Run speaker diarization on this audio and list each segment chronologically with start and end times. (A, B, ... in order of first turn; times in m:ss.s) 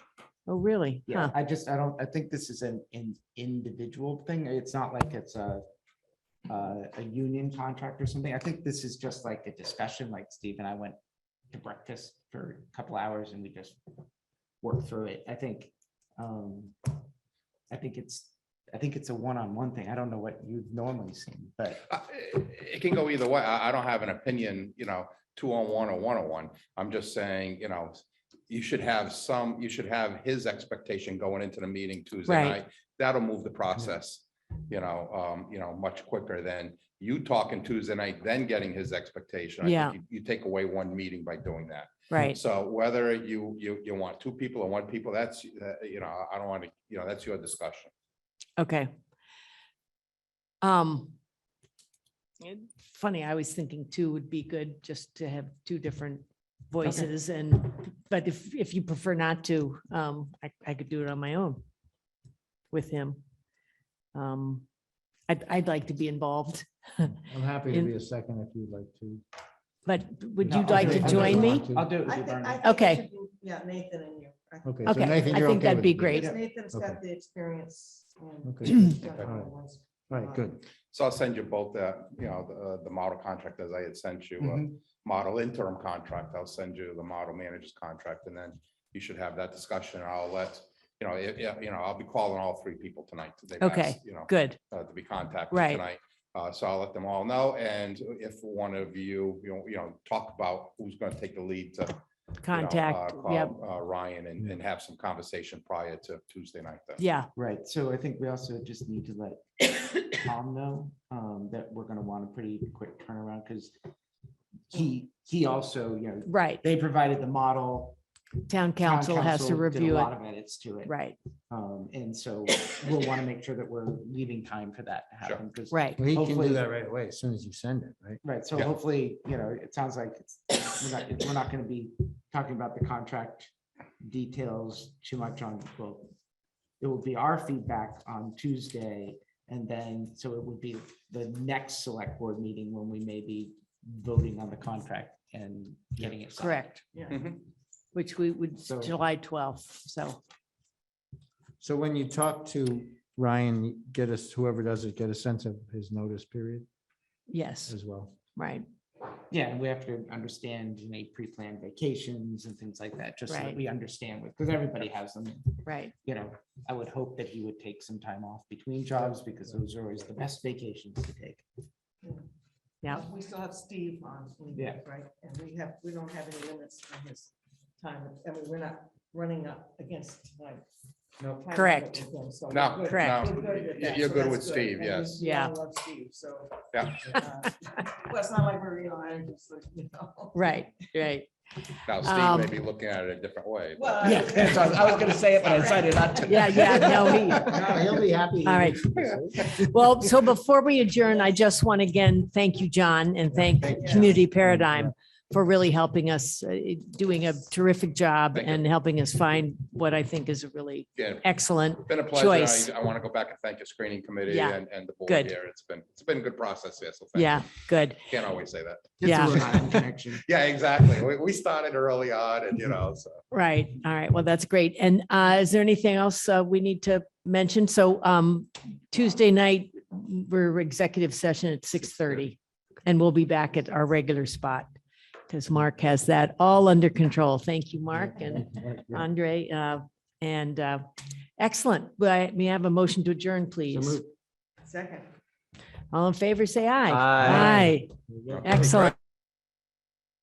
0:00.5-0:01.3 A
0:01.1-0:05.6 B
0:06.5-0:11.0 B
0:11.5-0:13.8 B
0:14.6-0:16.7 B
0:17.7-0:21.8 B
0:21.9-0:47.9 C
0:32.3-0:32.6 A
0:39.6-0:39.9 A
0:42.1-0:42.4 A
0:48.6-0:48.9 A
0:50.6-0:51.2 A
0:52.4-1:01.6 A
1:02.7-1:03.2 A
1:04.1-1:04.6 A
1:05.3-1:07.9 A
1:07.2-1:09.2 D
1:09.8-1:11.7 A
1:10.4-1:11.9 D
1:10.4-1:12.6 B
1:12.0-1:20.5 E
1:12.6-1:13.0 A
1:14.6-1:17.0 D
1:14.8-1:16.3 A
1:18.4-1:19.5 D
1:20.1-1:20.6 D
1:20.9-1:47.0 C
1:24.4-1:24.7 B
1:33.6-1:34.6 A
1:35.5-1:35.8 A
1:42.4-1:43.6 A
1:47.0-1:47.3 A
1:47.4-1:53.7 B
1:54.7-1:58.0 B
1:56.2-1:56.6 A
1:58.5-2:00.1 A
1:58.8-2:00.9 B
2:00.8-2:01.1 A
2:01.5-2:06.6 B
2:05.7-2:06.0 A
2:06.0-2:08.2 D
2:08.2-2:16.1 B
2:16.8-2:26.6 B
2:26.4-2:26.8 A
2:26.9-2:27.2 E
2:27.1-2:27.4 C
2:27.9-2:30.2 A
2:28.6-2:28.9 B
2:31.6-2:36.7 D
2:37.3-2:37.8 A
2:37.7-2:38.2 D
2:38.3-2:38.6 A
2:39.3-2:51.4 B
2:43.3-2:43.6 A
2:45.6-2:45.9 A
2:52.8-3:00.6 E
2:54.5-2:54.8 B
3:01.2-3:10.6 E
3:01.5-3:02.0 A
3:02.5-3:05.2 C
3:02.9-3:03.2 A
3:05.2-3:05.5 A
3:06.7-3:07.2 C
3:10.3-3:11.3 A
3:11.8-3:14.2 C
3:12.0-3:12.6 A
3:13.8-3:17.9 E
3:14.0-3:14.5 A
3:14.1-3:17.9 B
3:16.2-3:17.6 A
3:17.4-3:19.6 D
3:18.4-3:32.7 A
3:23.5-3:24.9 D
3:23.6-3:24.1 E
3:28.3-3:28.6 C
3:31.0-3:37.5 C
3:34.3-3:35.3 A
3:37.1-3:38.1 A
3:38.0-3:43.2 C
3:39.0-3:40.2 B
3:39.0-3:39.4 A
3:43.3-3:54.7 A
3:55.3-4:00.8 A
3:58.1-3:59.0 D
4:01.4-4:04.0 A
4:03.7-4:04.1 D
4:04.6-4:05.1 E
4:05.9-4:08.9 A
4:06.9-4:08.5 D
4:08.3-4:08.9 C